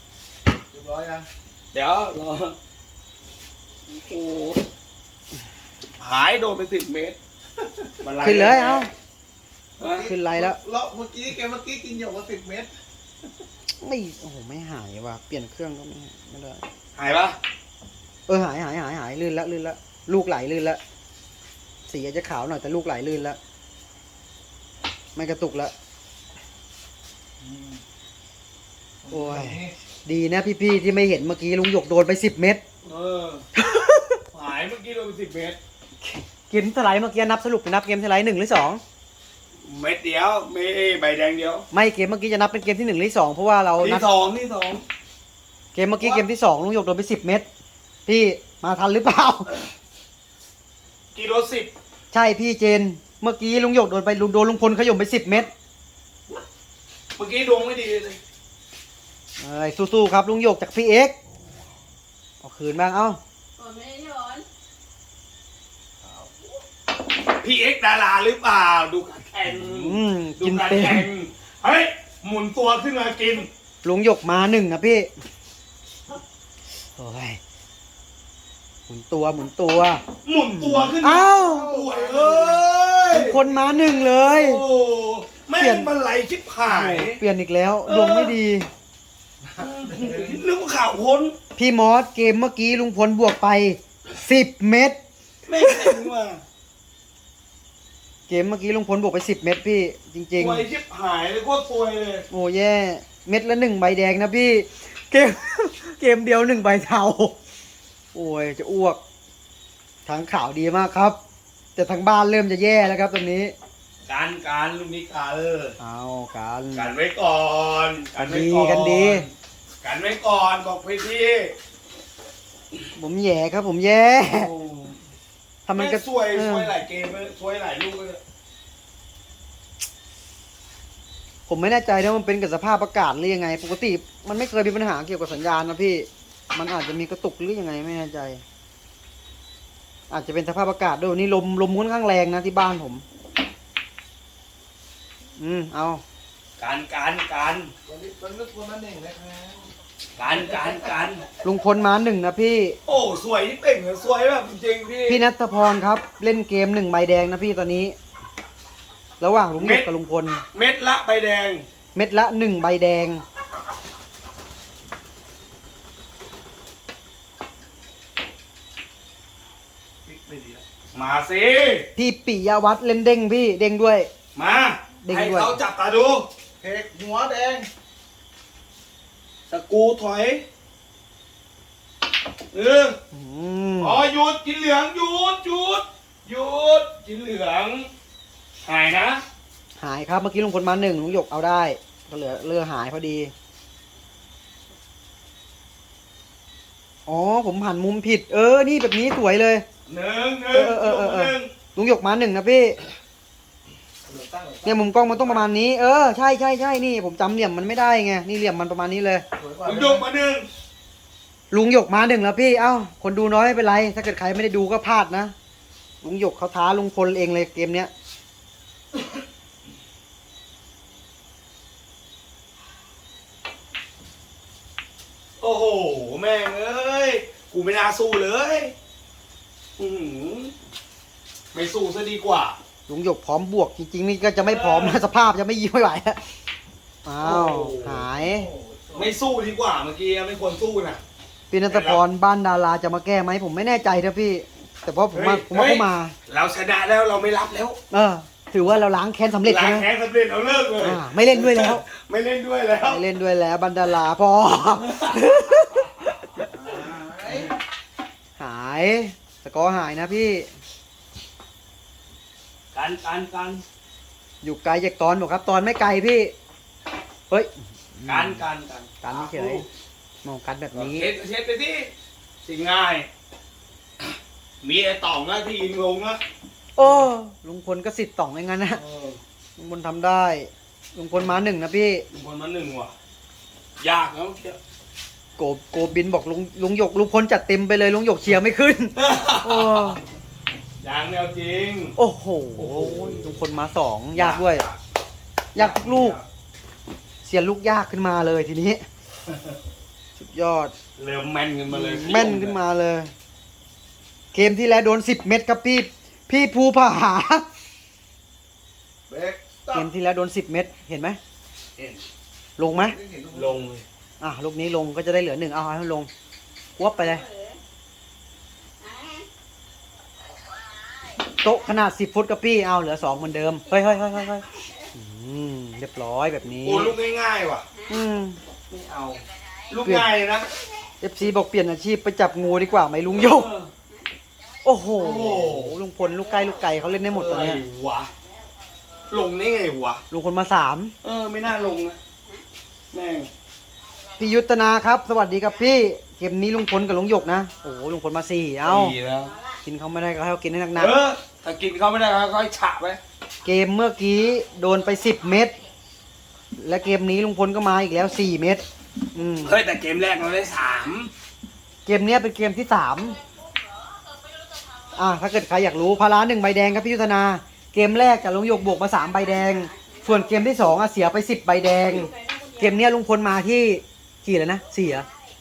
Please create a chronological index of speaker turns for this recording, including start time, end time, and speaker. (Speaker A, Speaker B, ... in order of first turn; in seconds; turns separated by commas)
Speaker A: 0.7-1.3, Speaker B: 1.7-2.6, Speaker B: 3.9-4.7, Speaker B: 6.0-7.2, Speaker A: 7.6-7.8, Speaker B: 8.0-8.9, Speaker C: 8.2-8.9, Speaker B: 9.8-10.1, Speaker A: 9.8-12.7, Speaker C: 10.0-10.6, Speaker C: 13.8-16.6, Speaker B: 17.0-17.4, Speaker C: 18.3-20.8, Speaker C: 21.9-23.4, Speaker C: 25.1-25.7, Speaker A: 27.4-27.8, Speaker A: 29.0-29.7, Speaker C: 29.1-32.6, Speaker B: 32.9-33.5, Speaker C: 33.5-34.2, Speaker B: 34.3-35.6, Speaker C: 36.0-38.8, Speaker B: 39.6-41.7, Speaker C: 41.7-44.1, Speaker B: 43.8-44.8, Speaker C: 45.7-47.5, Speaker C: 48.1-49.5, Speaker B: 51.1-51.7, Speaker C: 52.1-55.5, Speaker B: 57.2-58.2, Speaker C: 59.4-61.2, Speaker C: 62.4-63.2, Speaker D: 63.6-64.5, Speaker B: 67.4-73.5, Speaker C: 69.5-71.1, Speaker C: 73.8-75.1, Speaker C: 77.0-77.4, Speaker C: 78.9-80.0, Speaker B: 80.2-87.2, Speaker C: 80.6-81.8, Speaker A: 81.3-82.7, Speaker C: 83.1-84.6, Speaker C: 85.6-85.9, Speaker C: 86.7-88.7, Speaker B: 87.9-88.4, Speaker A: 89.5-90.4, Speaker B: 89.6-91.4, Speaker C: 91.6-95.0, Speaker B: 95.5-96.4, Speaker C: 95.6-96.1, Speaker C: 98.3-100.7, Speaker B: 100.4-102.3, Speaker C: 102.3-107.3, Speaker C: 108.1-109.0, Speaker C: 110.1-111.2, Speaker C: 111.8-113.5, Speaker B: 114.1-115.8, Speaker C: 115.8-116.9, Speaker B: 116.7-119.3, Speaker C: 118.2-119.3, Speaker B: 119.8-121.5, Speaker C: 123.0-124.5, Speaker B: 124.3-125.0, Speaker C: 125.7-126.7, Speaker B: 125.7-128.2, Speaker C: 131.5-138.4, Speaker C: 140.1-143.0, Speaker C: 145.4-146.0, Speaker B: 146.6-147.7, Speaker A: 147.9-149.7, Speaker B: 150.2-151.3, Speaker A: 150.3-150.8, Speaker C: 151.4-152.8, Speaker B: 152.9-155.2, Speaker C: 155.1-158.0, Speaker C: 159.2-160.4, Speaker B: 159.6-159.9, Speaker B: 160.5-161.7, Speaker C: 161.9-163.2, Speaker A: 170.1-170.6, Speaker B: 170.9-171.9, Speaker C: 172.0-174.1, Speaker B: 174.4-176.3, Speaker C: 175.0-175.6, Speaker A: 176.6-177.7, Speaker B: 179.5-180.4, Speaker B: 182.5-183.0, Speaker C: 183.1-184.0, Speaker B: 183.8-187.9, Speaker B: 188.6-189.2, Speaker C: 189.8-193.3, Speaker C: 197.1-199.7, Speaker B: 199.9-201.5, Speaker C: 200.5-202.8, Speaker A: 204.1-205.5, Speaker C: 204.7-209.2, Speaker A: 209.4-210.1, Speaker B: 209.6-210.5, Speaker C: 211.5-215.3, Speaker C: 216.0-217.9, Speaker B: 225.4-228.7, Speaker B: 229.8-230.5, Speaker B: 231.5-232.6, Speaker C: 232.9-236.2, Speaker B: 234.4-235.0, Speaker C: 237.1-238.5, Speaker B: 237.2-238.1, Speaker A: 238.2-239.1, Speaker B: 238.9-241.0, Speaker C: 241.5-246.1, Speaker B: 241.7-242.0, Speaker B: 245.1-247.8, Speaker C: 247.9-249.9, Speaker B: 249.4-253.0, Speaker C: 250.8-251.8, Speaker C: 252.8-256.4, Speaker B: 254.8-255.2, Speaker A: 256.5-257.5, Speaker C: 258.4-260.5, Speaker B: 262.7-263.6, Speaker C: 264.4-266.3, Speaker C: 267.3-268.4, Speaker B: 268.1-269.7, Speaker C: 269.0-269.6, Speaker C: 270.2-271.1, Speaker B: 270.7-271.9, Speaker B: 272.4-273.1, Speaker B: 274.6-276.2, Speaker C: 276.8-278.8, Speaker B: 276.8-277.1, Speaker B: 278.8-279.2, Speaker C: 279.6-282.0, Speaker B: 282.1-282.9, Speaker B: 283.8-284.6, Speaker C: 285.4-290.0, Speaker B: 289.0-290.0, Speaker B: 290.8-292.0, Speaker C: 292.0-294.6, Speaker B: 292.6-293.3, Speaker B: 294.1-294.8, Speaker C: 295.6-296.2, Speaker B: 295.6-296.2, Speaker C: 297.2-298.9, Speaker C: 300.2-300.7, Speaker B: 301.0-302.6, Speaker C: 301.7-303.1, Speaker C: 304.3-307.4, Speaker A: 309.1-309.9, Speaker C: 309.7-311.2, Speaker C: 312.6-313.0, Speaker A: 312.9-313.7, Speaker B: 313.3-313.9, Speaker C: 314.2-316.1, Speaker C: 316.8-317.2, Speaker D: 316.8-317.6, Speaker D: 318.8-319.3, Speaker C: 321.4-326.9, Speaker B: 326.6-327.6, Speaker C: 327.9-328.4, Speaker B: 328.7-330.5, Speaker C: 329.8-330.1, Speaker C: 331.0-333.5, Speaker B: 333.2-333.7, Speaker C: 334.6-337.6, Speaker B: 335.0-335.8, Speaker B: 337.1-338.1, Speaker B: 339.1-340.0, Speaker C: 340.1-340.9, Speaker B: 341.0-342.0, Speaker B: 342.9-343.3, Speaker C: 344.2-348.9, Speaker B: 348.6-349.3, Speaker C: 349.6-350.9, Speaker B: 350.8-353.0, Speaker C: 353.4-355.5, Speaker C: 356.6-359.6, Speaker B: 359.4-361.1, Speaker C: 361.9-363.2, Speaker C: 364.9-375.1, Speaker D: 369.6-370.5, Speaker D: 371.9-372.8